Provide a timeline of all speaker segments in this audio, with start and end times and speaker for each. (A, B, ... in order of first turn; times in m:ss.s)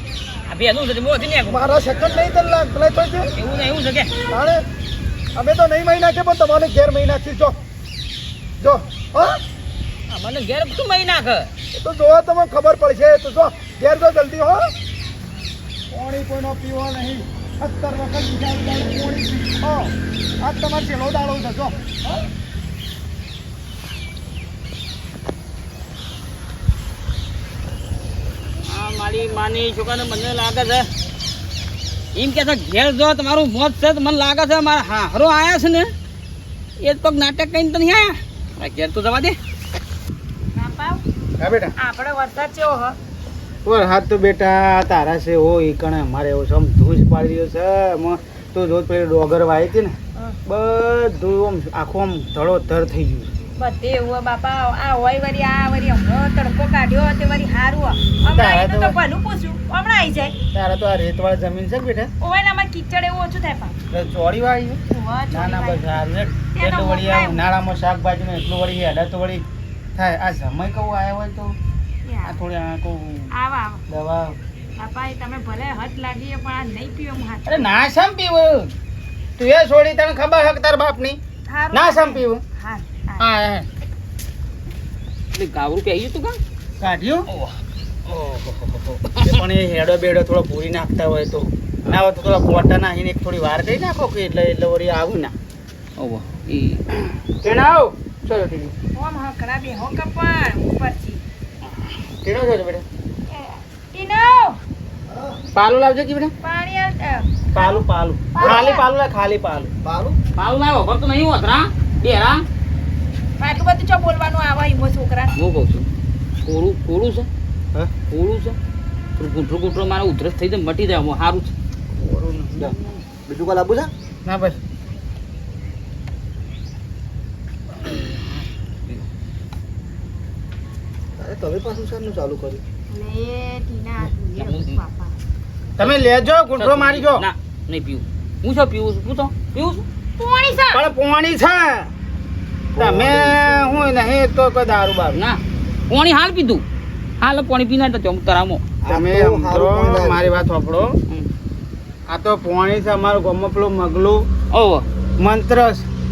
0:00.5-0:01.7 A
0:01.5-0:03.3 B
0:03.3-0:04.1 A
0:04.3-0:04.6 B
0:05.4-0:07.6 B
0:08.6-0:09.4 B
0:10.1-0:11.5 A
0:11.7-0:14.6 B
0:15.9-0:22.0 B
0:28.6-0:30.9 A
0:32.1-0:35.9 A
0:36.8-0:39.4 A
0:40.5-0:41.0 C
0:41.4-0:41.7 D
0:41.8-0:43.0 C
0:43.6-0:53.3 D
0:53.6-1:00.3 C
0:58.2-0:58.9 D
1:00.5-1:02.1 D
1:02.2-1:03.8 C
1:03.9-1:04.8 D
1:04.9-1:05.9 C
1:05.3-1:09.4 D
1:06.5-1:07.4 C
1:10.0-1:11.6 D
1:12.0-1:12.4 C
1:12.2-1:13.3 D
1:13.3-1:13.8 C
1:13.9-1:14.4 D
1:14.8-1:17.7 C
1:17.4-1:18.8 D
1:19.4-1:21.2 D
1:21.5-1:23.3 C
1:21.7-1:22.4 D
1:23.2-1:23.7 D
1:25.3-1:26.4 A
1:26.8-1:27.3 D
1:27.3-1:27.6 A
1:28.1-1:28.3 D
1:28.3-1:29.4 A
1:29.0-1:35.3 D
1:36.0-1:36.8 A
1:37.4-1:38.7 D
1:38.9-1:41.2 C
1:42.1-1:42.8 D
1:43.3-1:44.6 C
1:45.1-1:45.4 E
1:45.5-1:46.3 D
1:46.4-1:48.8 C
1:47.5-1:49.7 D
1:48.4-1:48.7 E
1:49.8-1:50.2 E
1:50.4-1:52.4 A
1:53.4-1:55.3 C
1:55.3-1:55.9 A
1:56.4-1:57.3 A
1:58.1-1:58.6 A
1:59.2-2:01.5 A
2:01.9-2:03.0 D
2:03.3-2:03.9 E
2:04.2-2:04.6 D
2:11.2-2:12.6 E
2:12.9-2:15.1 C
2:14.4-2:14.8 A
2:15.8-2:19.8 A
2:15.8-2:17.2 D
2:20.2-2:20.8 C
2:20.7-2:21.9 D
2:22.8-2:23.8 E
2:22.8-2:25.2 D
2:25.1-2:26.6 A
2:27.2-2:28.7 A
2:28.8-2:31.0 D
2:28.9-2:30.4 E
2:32.1-2:34.2 D
2:34.5-2:34.8 A
2:35.2-2:35.9 D